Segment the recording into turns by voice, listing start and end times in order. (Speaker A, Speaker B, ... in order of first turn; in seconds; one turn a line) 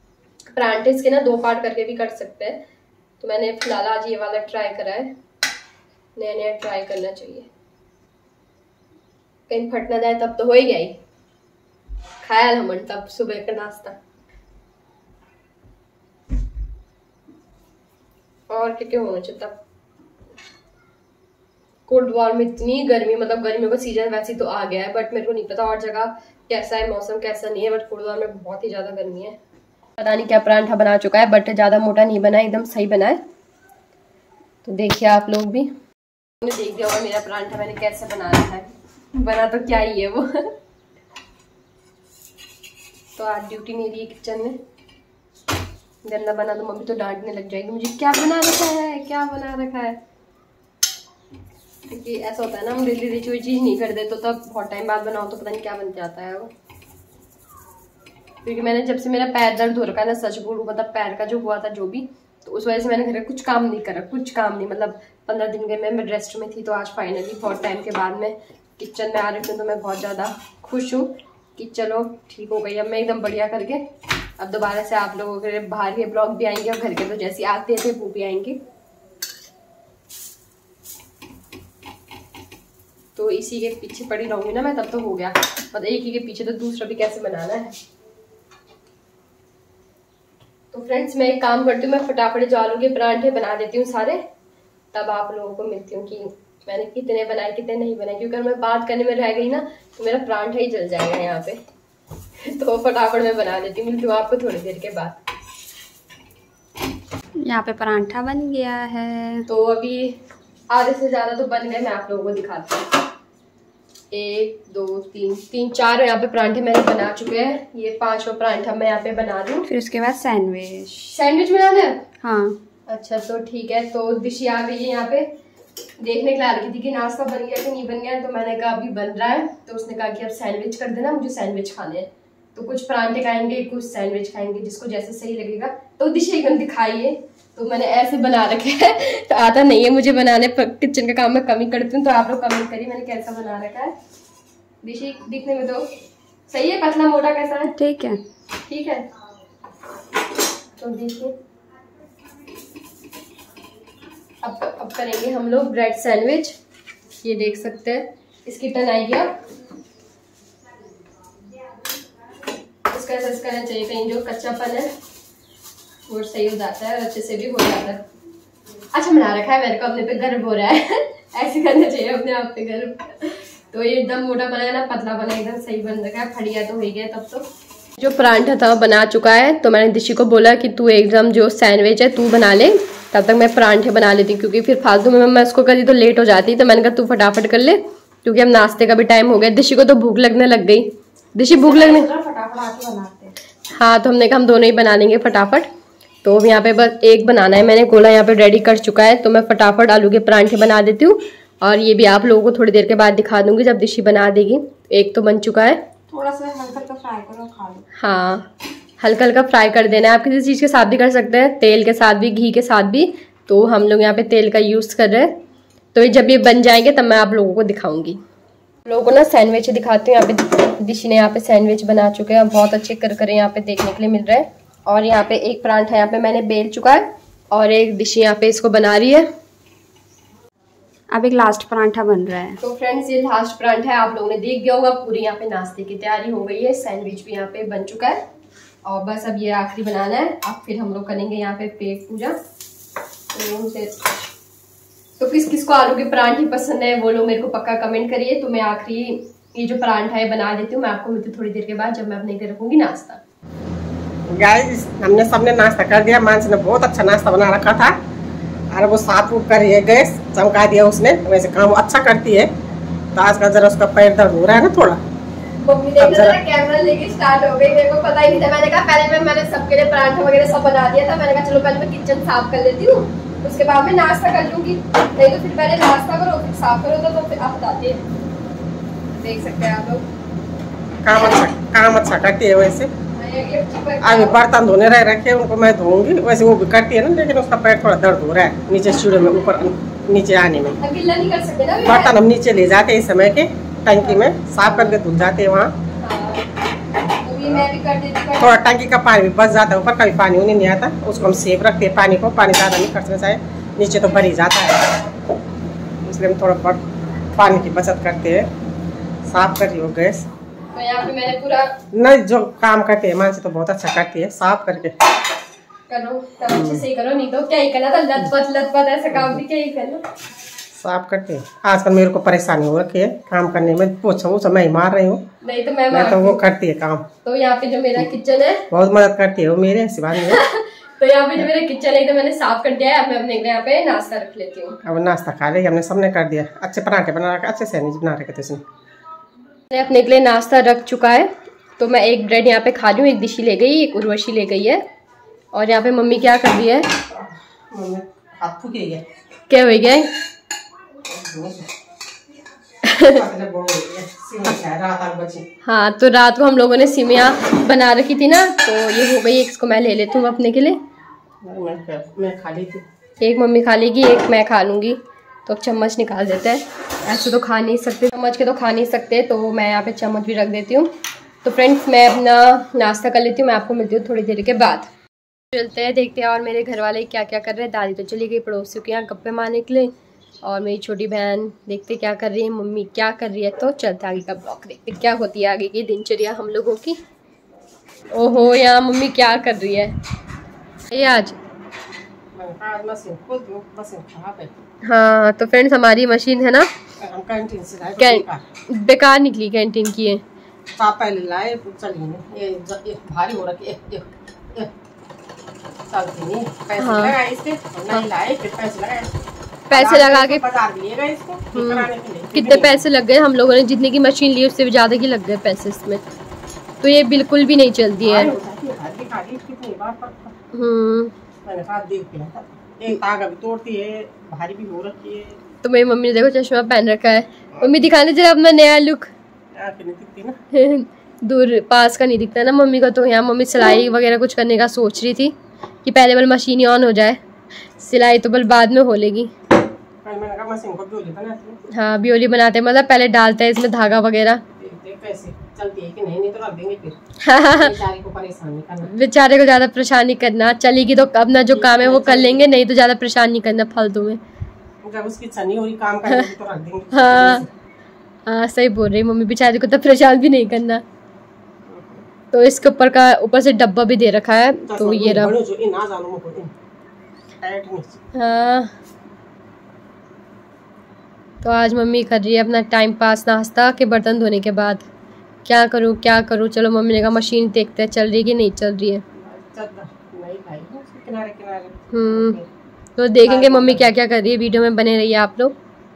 Speaker A: 0.5-2.6
Speaker A: 3.2-5.2
Speaker A: 6.2-7.5
Speaker A: 9.5-11.0
Speaker A: 12.2-14.0
Speaker A: 18.5-19.6
Speaker A: 21.9-29.4
Speaker A: 30.0-33.2
Speaker A: 34.6-35.7
Speaker A: 36.4-40.5
Speaker A: 43.2-44.6
Speaker A: 46.0-50.0
Speaker A: 51.9-56.5
Speaker A: 58.4-73.9
Speaker A: 74.4-78.6
Speaker A: 83.2-87.8
Speaker A: 90.7-94.2
Speaker A: 94.9-101.6
Speaker A: 102.4-105.2
Speaker B: 107.4-109.5
Speaker A: 109.5-112.9
Speaker A: 114.1-119.7
Speaker B: 119.7-121.2
Speaker A: 121.1-122.1
Speaker B: 122.2-122.6
Speaker A: 122.9-125.3
Speaker A: 126.0-143.9
Speaker A: 144.8-145.8
Speaker A: 146.5-147.7
Speaker B: 147.8-148.2
Speaker A: 148.7-149.1
Speaker A: 150.8-151.3
Speaker A: 154.4-156.6
Speaker A: 157.2-159.4
Speaker A: 162.9-164.9
Speaker A: 166.1-168.0
Speaker A: 168.9-192.1
Speaker B: 191.5-193.3
Speaker A: 193.7-195.7
Speaker A: 196.2-205.8
Speaker B: 206.1-207.8
Speaker A: 208.0-208.5
Speaker A: 209.0-215.4
Speaker A: 215.9-218.2
Speaker A: 218.9-229.3
Speaker B: 231.1-232.6
Speaker A: 232.6-238.2
Speaker A: 238.8-242.4
Speaker A: 243.3-244.0
Speaker A: 245.2-253.2
Speaker C: 254.3-257.9
Speaker C: 258.7-262.5
Speaker C: 263.1-265.0
Speaker A: 265.6-278.1
Speaker C: 266.0-266.4
Speaker A: 279.2-280.1
Speaker C: 281.0-282.9
Speaker A: 283.2-284.4
Speaker C: 284.0-290.8
Speaker A: 290.8-292.2
Speaker C: 291.9-295.7
Speaker A: 294.0-295.0
Speaker A: 296.0-296.5
Speaker A: 297.1-298.6
Speaker C: 298.4-305.0
Speaker C: 306.0-306.8
Speaker C: 307.4-308.5
Speaker C: 309.3-310.3
Speaker A: 310.7-311.7
Speaker C: 311.9-314.9
Speaker A: 315.9-320.0
Speaker C: 316.4-316.8
Speaker C: 320.8-325.2
Speaker A: 325.4-326.5
Speaker C: 325.9-327.1
Speaker A: 327.2-328.7
Speaker C: 328.7-330.4
Speaker A: 330.2-334.8
Speaker C: 334.8-338.6
Speaker A: 339.7-344.8
Speaker A: 345.5-347.0
Speaker C: 347.1-349.1
Speaker A: 349.5-350.1
Speaker C: 351.0-351.7
Speaker A: 352.8-353.2
Speaker C: 353.0-355.5
Speaker A: 355.6-360.8
Speaker C: 361.4-362.9
Speaker A: 363.2-370.9
Speaker A: 371.4-374.9
Speaker A: 375.5-379.9
Speaker A: 380.4-387.0
Speaker A: 388.1-390.0
Speaker A: 390.9-391.4
Speaker C: 392.4-394.6
Speaker A: 394.9-396.7
Speaker C: 397.0-398.4
Speaker A: 398.0-400.2
Speaker C: 400.8-404.7
Speaker C: 405.9-409.1
Speaker A: 406.8-407.2
Speaker A: 409.7-410.4
Speaker C: 409.7-412.8
Speaker A: 411.5-416.0
Speaker A: 416.8-418.4
Speaker C: 418.0-420.4
Speaker A: 420.5-421.1
Speaker C: 421.4-425.4
Speaker A: 425.6-429.1
Speaker C: 429.6-430.4
Speaker A: 430.5-437.2
Speaker A: 437.8-439.3
Speaker C: 440.0-441.6
Speaker A: 441.7-444.4
Speaker C: 444.6-447.0
Speaker A: 447.2-447.8
Speaker C: 447.5-448.9
Speaker A: 448.9-454.2
Speaker C: 451.5-452.5
Speaker C: 454.8-457.5
Speaker A: 456.1-456.3
Speaker A: 456.9-457.4
Speaker A: 458.3-460.8
Speaker C: 461.7-462.1
Speaker A: 462.3-465.4
Speaker C: 464.7-466.5
Speaker C: 467.4-468.0
Speaker A: 468.1-468.7
Speaker A: 471.4-474.9
Speaker A: 475.4-479.0
Speaker C: 479.1-482.5
Speaker A: 481.9-482.4
Speaker A: 483.0-485.6
Speaker C: 483.2-483.9